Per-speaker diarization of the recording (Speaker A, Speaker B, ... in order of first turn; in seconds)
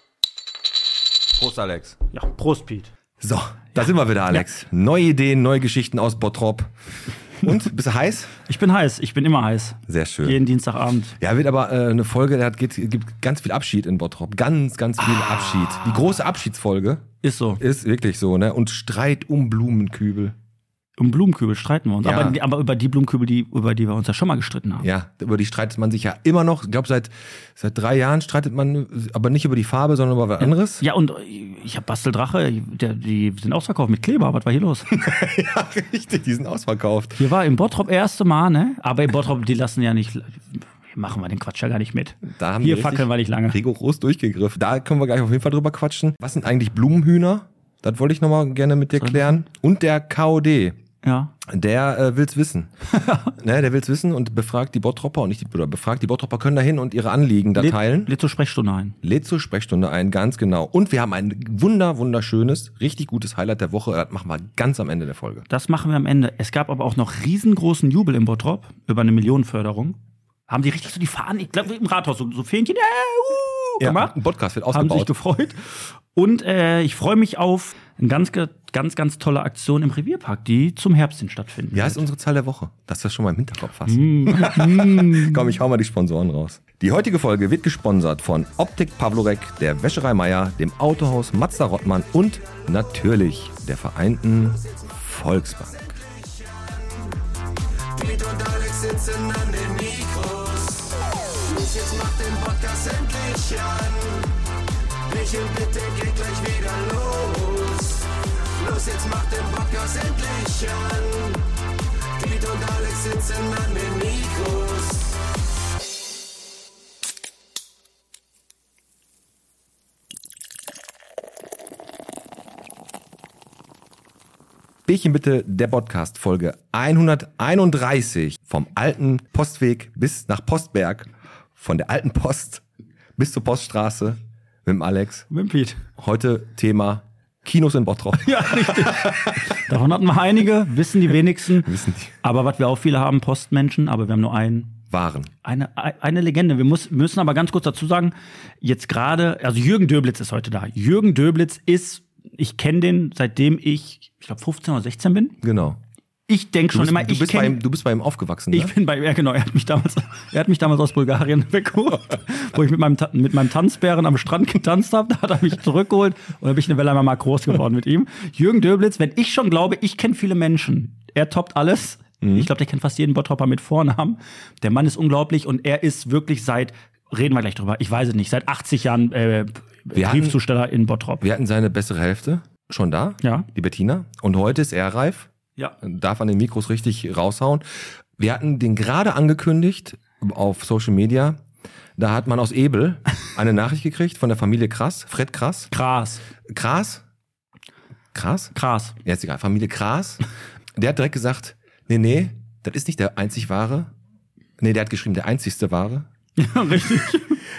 Speaker A: 1.4-2.0, 3.2-6.7, 7.4-8.3, 9.9-10.4, 11.2-17.0, 17.6-20.3, 22.0-22.4, 24.8-30.8, 34.9-37.2, 42.3-50.8, 51.4-52.7, 53.3-58.1, 59.0-65.5, 73.8-75.1, 81.7-96.0, 98.0-100.7, 101.5-104.1, 105.1-107.9, 108.6-111.2, 112.2-114.7, 124.9-132.6, 133.2-135.3, 136.0-139.4, 141.6-142.2, 144.9-145.3, 155.4-155.8, 156.7-158.7, 172.2-172.5, 179.9-180.4, 181.2-185.3, 185.8-187.6, 188.2-191.4, 192.0-195.7, 196.5-197.0, 198.1-200.2, 200.8-203.9, 204.6-206.1
Speaker B: 2.1-2.9, 8.4-11.1, 17.2-17.6, 21.0-24.9, 30.4-34.9, 37.2-43.6, 48.9-49.4, 51.0-51.3, 52.9-53.3, 57.5-59.0, 65.5-70.0, 70.5-74.1, 74.7-82.0, 83.8-85.5, 135.3-135.8, 138.2-144.8, 145.4-155.4, 156.3-157.6, 158.5-181.2, 183.2-183.5, 195.7-196.2, 198.5-198.9, 206.4-207.4